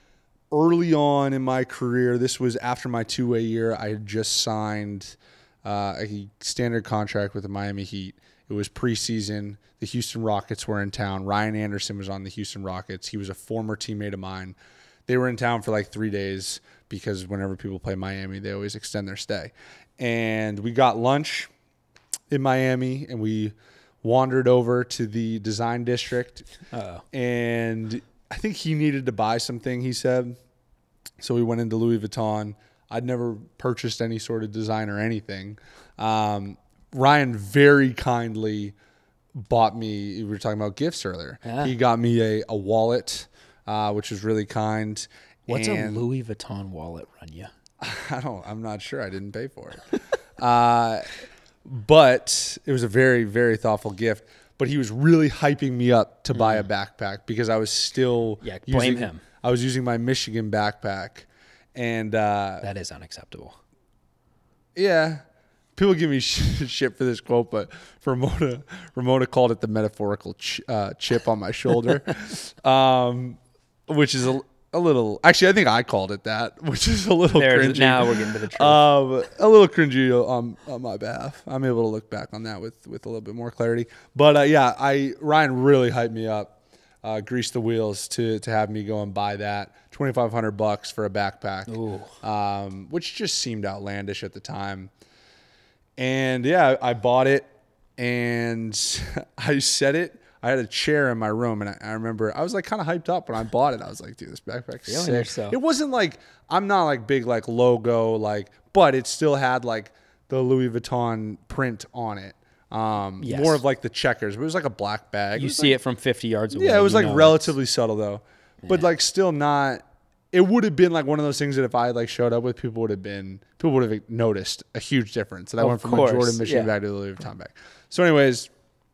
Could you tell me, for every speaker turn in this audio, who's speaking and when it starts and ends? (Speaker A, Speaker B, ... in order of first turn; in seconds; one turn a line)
Speaker A: 0.5-14.6
Speaker A: 15.1-21.5
Speaker A: 22.3-26.5
Speaker B: 26.7-27.0
Speaker A: 27.1-30.4
Speaker A: 31.2-38.7
Speaker A: 39.3-46.0
Speaker B: 41.4-41.7
Speaker B: 45.5-47.5
Speaker A: 47.8-51.1
Speaker A: 51.6-62.7
Speaker B: 56.3-56.7
Speaker B: 58.4-59.2
Speaker B: 62.6-63.6
Speaker A: 64.7-65.2
Speaker A: 65.8-94.9
Speaker B: 77.3-78.8
Speaker B: 91.7-92.1
Speaker A: 96.0-115.8
Speaker B: 104.9-105.6
Speaker B: 113.2-113.6
Speaker B: 115.3-117.5
Speaker A: 116.5-128.5
Speaker B: 118.6-118.9
Speaker B: 125.6-126.7